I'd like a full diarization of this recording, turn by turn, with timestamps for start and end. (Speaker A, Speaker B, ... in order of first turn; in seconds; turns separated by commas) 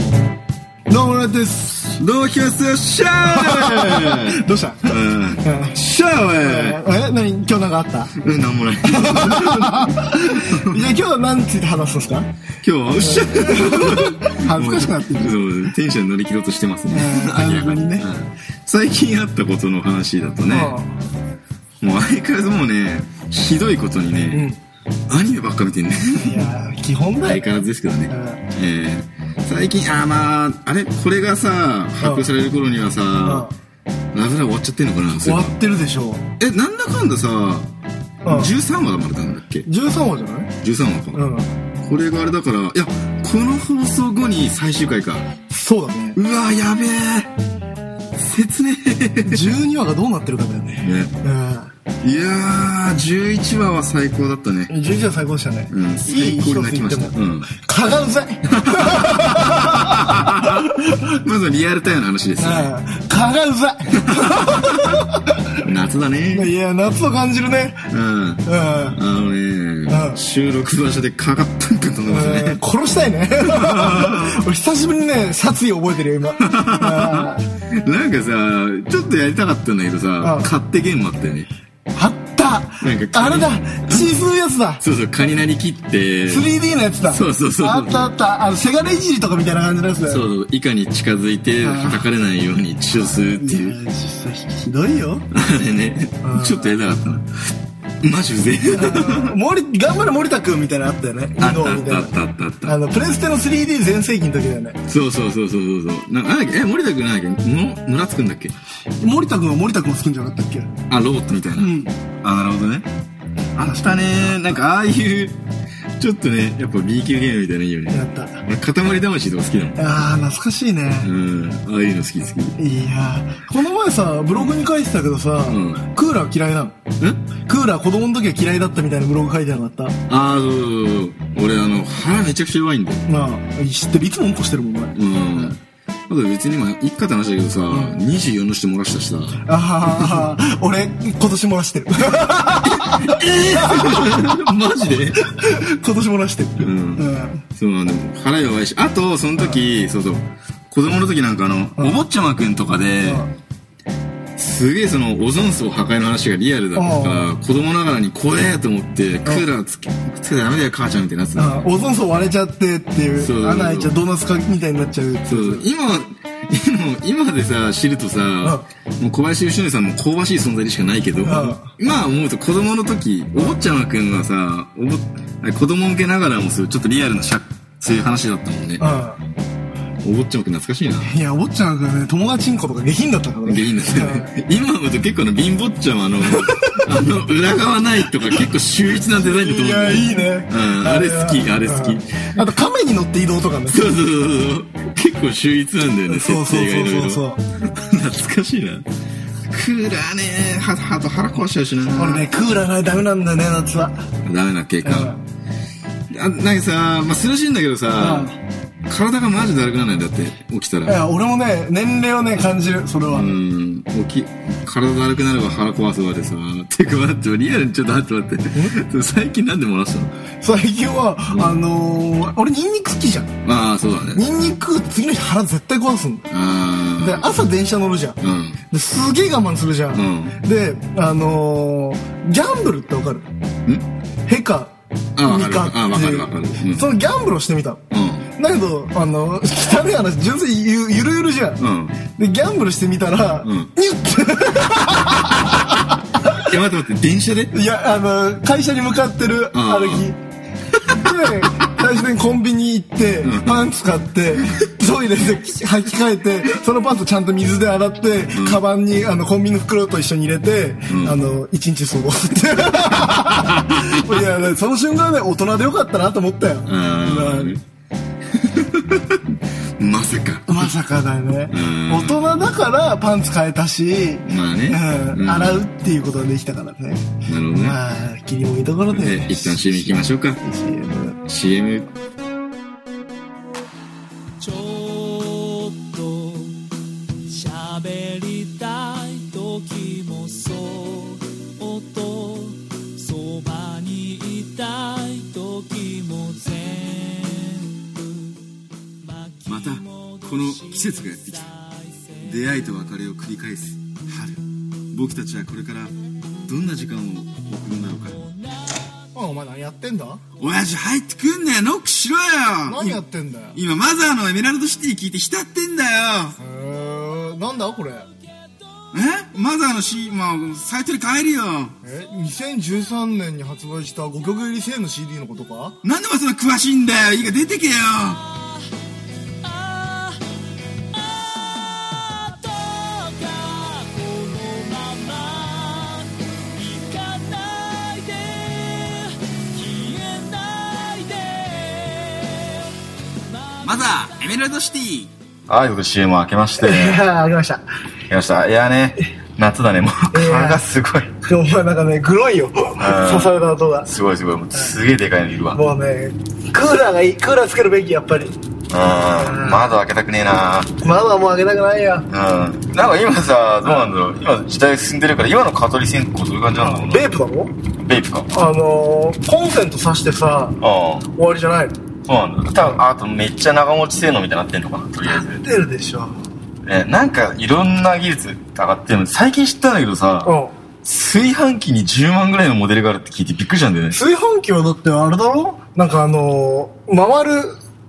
Speaker A: 0.9-2.0, Speaker B: 2.0-6.8, Speaker A: 3.2-5.8, Speaker A: 6.4-8.1, Speaker B: 8.2-10.8, Speaker A: 8.9-12.3, Speaker B: 12.6-20.8, Speaker A: 13.0-15.4, Speaker A: 16.9-18.1, Speaker A: 20.5-20.9, Speaker B: 21.8-24.4, Speaker A: 24.3-24.6, Speaker B: 25.1-26.5, Speaker A: 26.1-27.5, Speaker B: 27.2-33.5, Speaker A: 28.1-28.4, Speaker A: 32.0-32.3, Speaker A: 33.2-33.5, Speaker B: 34.1-35.5, Speaker A: 35.2-36.3, Speaker B: 36.4-37.7, Speaker A: 38.2-38.5, Speaker B: 38.3-39.7, Speaker A: 39.6-40.5, Speaker B: 40.6-41.2, Speaker A: 41.1-41.5, Speaker B: 41.8-45.3, Speaker A: 45.5-46.2, Speaker B: 46.2-47.3, Speaker B: 48.2-49.5, Speaker A: 49.2-51.7, Speaker B: 50.8-51.1, Speaker B: 52.0-54.7, Speaker A: 54.7-61.1, Speaker B: 55.7-57.5, Speaker B: 58.5-62.7, Speaker A: 62.4-65.4, Speaker B: 64.1-65.0, Speaker B: 65.6-66.5, Speaker A: 66.3-67.8, Speaker B: 67.9-72.6, Speaker A: 68.5-69.0, Speaker A: 69.9-70.2, Speaker A: 72.1-77.5, Speaker B: 73.4-74.4, Speaker B: 76.4-81.5, Speaker A: 80.2-80.5, Speaker A: 81.9-84.8, Speaker B: 82.8-84.1, Speaker B: 84.8-86.5, Speaker A: 86.3-90.3, Speaker B: 87.1-88.1, Speaker B: 90.1-93.8, Speaker A: 91.6-92.0, Speaker A: 93.0-95.3, Speaker B: 95.3-97.3, Speaker A: 96.2-96.7, Speaker B: 98.0-99.4, Speaker A: 98.7-102.1, Speaker B: 101.4-102.8, Speaker A: 102.6-104.8, Speaker B: 104.9-108.6, Speaker A: 109.0-110.8, Speaker B: 110.9-112.9, Speaker A: 111.6-111.9, Speaker B: 113.6-115.4, Speaker A: 113.6-114.3, Speaker B: 116.0-119.8, Speaker A: 117.9-118.4, Speaker A: 119.8-121.1, Speaker B: 121.0-122.5, Speaker A: 122.6-126.8, Speaker B: 125.5-125.8, Speaker A: 127.5-130.0, Speaker B: 130.1-133.0, Speaker A: 133.1-135.6, Speaker B: 134.9-139.4, Speaker A: 139.4-147.4, Speaker B: 139.9-140.2, Speaker B: 142.6-145.2, Speaker B: 146.6-153.2, Speaker A: 153.0-153.3, Speaker B: 154.4-161.6, Speaker A: 156.7-157.2, Speaker A: 161.3-165.6, Speaker B: 163.2-163.9, Speaker B: 165.3-178.8, Speaker A: 171.2-171.7, Speaker A: 178.8-179.2, Speaker B: 180.0-181.1, Speaker A: 181.0-184.3, Speaker B: 183.4-192.1, Speaker A: 186.2-186.9, Speaker A: 189.1-194.0, Speaker B: 193.7-198.8, Speaker A: 196.1-197.4, Speaker B: 199.5-202.3, Speaker A: 201.9-204.0, Speaker B: 204.2-205.1, Speaker A: 204.8-205.2, Speaker B: 206.1-208.3, Speaker A: 208.0-208.3, Speaker B: 208.9-211.0, Speaker A: 210.8-213.3, Speaker B: 213.1-220.1, Speaker A: 220.4-223.3, Speaker B: 221.3-221.6, Speaker B: 223.4-224.2, Speaker A: 224.1-226.3, Speaker B: 226.3-227.3, Speaker A: 227.0-228.2, Speaker B: 228.2-228.6, Speaker A: 228.7-233.3, Speaker B: 229.9-230.4, Speaker A: 234.3-234.7, Speaker B: 235.2-236.8, Speaker A: 235.2-237.8, Speaker B: 237.9-238.3, Speaker A: 238.4-241.6, Speaker B: 241.6-242.0, Speaker A: 242.2-246.4, Speaker B: 243.4-243.7, Speaker B: 245.0-247.5, Speaker A: 247.5-250.2, Speaker B: 249.5-250.1, Speaker B: 250.7-251.2, Speaker A: 250.9-267.6, Speaker B: 253.2-253.6, Speaker B: 258.3-258.6, Speaker B: 260.9-261.2, Speaker B: 262.9-264.3, Speaker B: 266.6-267.6, Speaker B: 268.3-270.8, Speaker A: 270.5-281.2, Speaker B: 271.5-272.3, Speaker B: 274.2-275.6, Speaker B: 277.3-277.8, Speaker B: 278.9-280.4, Speaker B: 281.3-281.9, Speaker C: 284.4-286.6, Speaker C: 287.2-298.4, Speaker C: 299.0-302.5, Speaker B: 299.5-301.5, Speaker B: 302.2-304.4, Speaker B: 304.9-305.9, Speaker B: 306.5-308.2, Speaker C: 308.1-308.9, Speaker A: 309.1-310.2, Speaker B: 310.4-313.0, Speaker A: 312.7-313.6, Speaker B: 313.6-316.4, Speaker A: 316.4-318.1, Speaker C: 318.3-318.9, Speaker B: 318.9-321.8, Speaker A: 321.8-325.8, Speaker B: 325.8-328.2, Speaker C: 328.3-328.6, Speaker C: 329.4-330.2, Speaker C: 330.9-344.2, Speaker B: 343.6-347.0, Speaker A: 346.6-347.6, Speaker B: 348.1-351.1, Speaker A: 350.1-350.6, Speaker A: 351.2-353.9, Speaker B: 352.8-353.3, Speaker B: 353.8-355.6, Speaker A: 355.5-358.3, Speaker B: 358.7-360.8, Speaker A: 359.0-359.8, Speaker A: 360.8-362.1, Speaker B: 362.1-367.1, Speaker A: 366.6-367.5, Speaker B: 367.8-368.3, Speaker A: 368.3-370.6, Speaker B: 370.6-371.1, Speaker A: 371.1-371.8, Speaker B: 372.1-375.4, Speaker A: 375.1-376.2, Speaker B: 376.6-380.3, Speaker A: 380.2-380.5, Speaker B: 380.8-384.0, Speaker A: 383.9-387.6